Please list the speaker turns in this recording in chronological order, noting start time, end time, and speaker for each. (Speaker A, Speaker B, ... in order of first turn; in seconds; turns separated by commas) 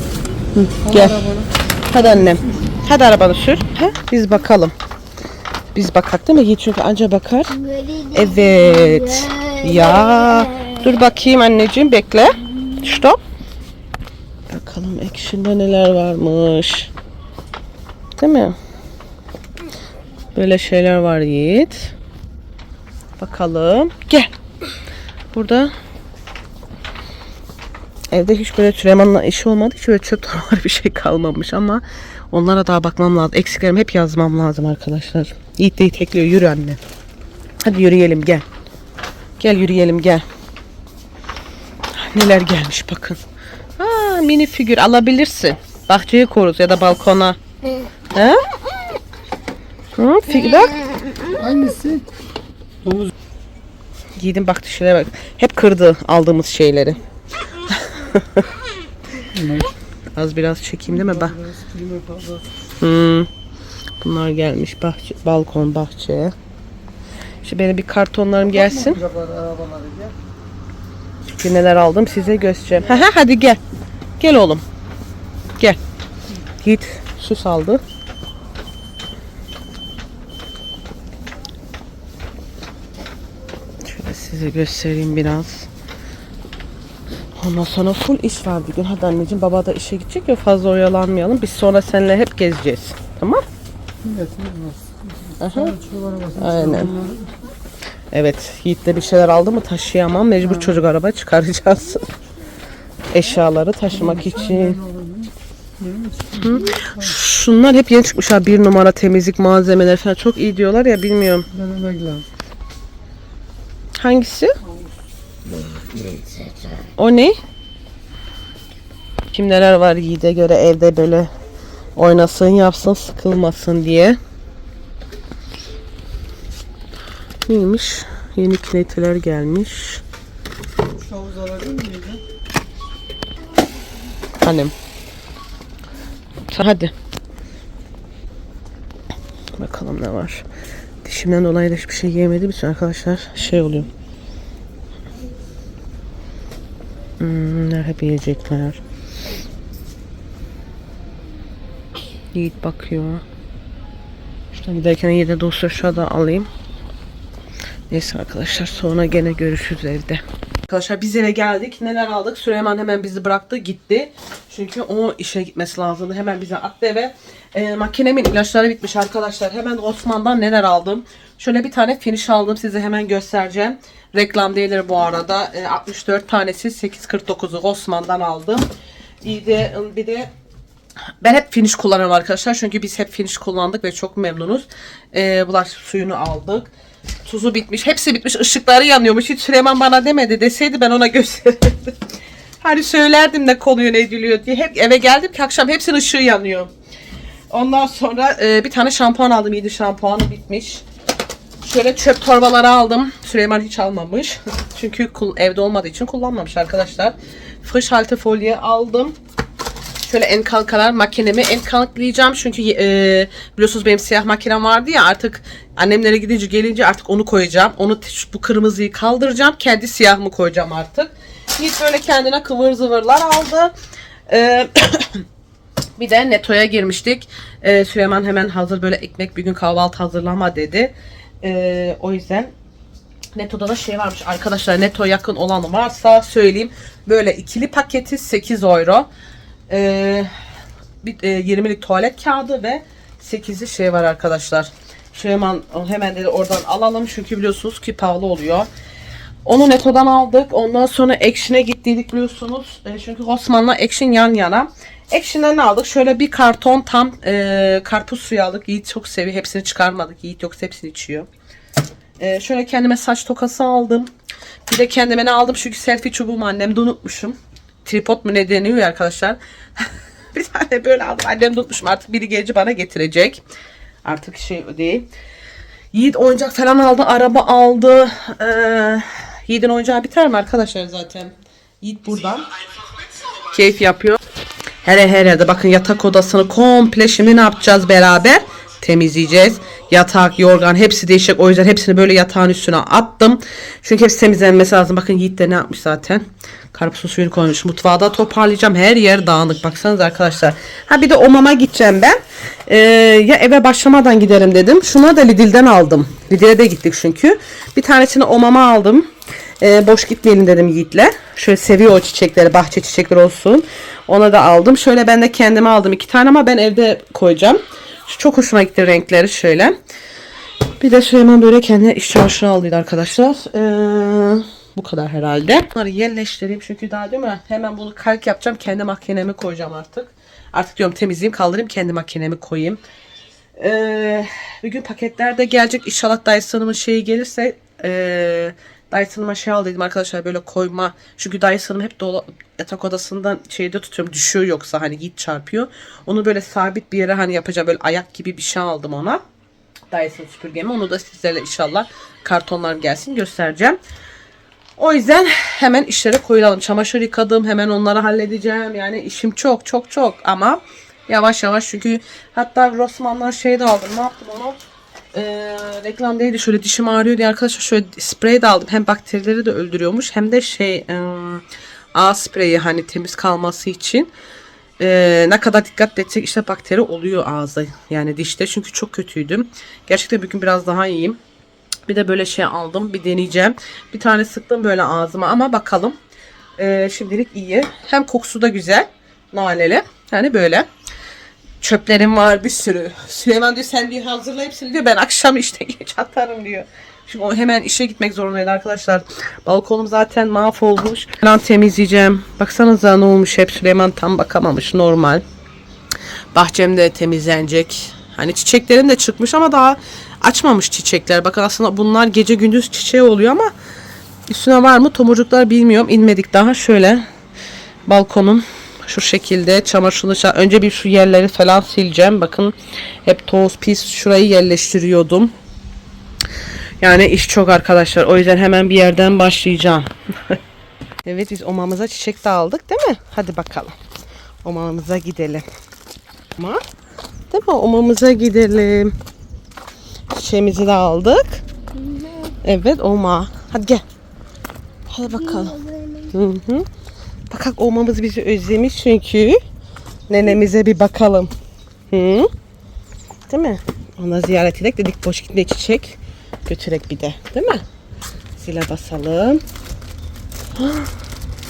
Speaker A: 0.7-4.7, Speaker A: 5.7-13.2, Speaker A: 14.5-16.9, Speaker A: 18.2-18.6, Speaker A: 20.3-21.9, Speaker A: 23.2-24.3, Speaker A: 25.3-25.7, Speaker A: 28.1-36.8, Speaker A: 37.6-38.5, Speaker A: 39.4-40.2, Speaker A: 41.9-43.2, Speaker A: 43.8-47.4, Speaker A: 48.1-48.4, Speaker A: 50.0-50.9, Speaker B: 51.3-52.0, Speaker A: 54.2-57.0, Speaker A: 57.7-58.5, Speaker B: 59.3-59.7, Speaker A: 60.1-61.4, Speaker B: 61.4-62.5, Speaker A: 62.8-63.3, Speaker A: 64.0-66.3, Speaker A: 67.4-69.1, Speaker B: 69.1-70.1, Speaker A: 71.3-73.6, Speaker A: 74.2-74.6, Speaker A: 76.6-77.8, Speaker A: 83.8-85.7, Speaker A: 87.4-93.4, Speaker B: 94.0-96.4, Speaker A: 95.4-95.8, Speaker A: 96.3-97.0, Speaker A: 98.1-102.1, Speaker A: 103.1-104.8, Speaker B: 104.9-105.3, Speaker B: 105.8-106.3, Speaker A: 106.3-111.5, Speaker B: 111.6-112.2, Speaker A: 114.0-114.5, Speaker B: 116.1-116.5, Speaker A: 117.0-117.4, Speaker A: 119.3-121.3, Speaker A: 122.0-124.2, Speaker A: 127.5-130.0, Speaker B: 131.1-132.2, Speaker A: 134.4-134.7, Speaker A: 136.5-136.9, Speaker A: 139.6-140.4, Speaker A: 141.0-143.9, Speaker A: 147.2-148.8, Speaker A: 152.3-153.2, Speaker A: 154.5-156.5, Speaker A: 157.9-178.7, Speaker A: 179.2-180.3, Speaker A: 181.2-186.7, Speaker A: 187.2-192.0, Speaker A: 192.6-196.7, Speaker A: 197.5-200.8, Speaker A: 201.6-209.2, Speaker A: 210.0-223.7, Speaker A: 224.3-225.3, Speaker A: 226.0-232.5, Speaker A: 233.3-239.1, Speaker A: 239.7-240.3, Speaker A: 241.0-248.7, Speaker A: 249.4-261.3, Speaker A: 262.2-264.1, Speaker A: 264.7-273.4, Speaker A: 274.1-275.1, Speaker A: 275.9-282.5, Speaker A: 283.3-284.2, Speaker A: 284.8-319.8, Speaker A: 320.8-332.8, Speaker A: 333.6-349.2, Speaker A: 349.9-353.8, Speaker A: 354.8-364.6, Speaker A: 365.1-371.4, Speaker A: 371.9-374.1, Speaker A: 374.8-381.2, Speaker A: 381.9-386.0, Speaker A: 386.6-390.7, Speaker A: 391.6-405.2, Speaker A: 406.4-413.5, Speaker A: 414.3-417.1, Speaker A: 417.9-425.3, Speaker A: 426.8-430.4, Speaker A: 431.0-433.8, Speaker A: 434.4-435.5, Speaker A: 436.4-436.6, Speaker A: 437.3-438.9, Speaker A: 440.1-441.4, Speaker A: 442.2-443.9, Speaker A: 444.9-446.7, Speaker A: 447.3-449.4, Speaker A: 450.1-451.3, Speaker A: 451.9-452.3, Speaker A: 453.3-457.6, Speaker A: 458.4-459.4, Speaker A: 460.6-460.9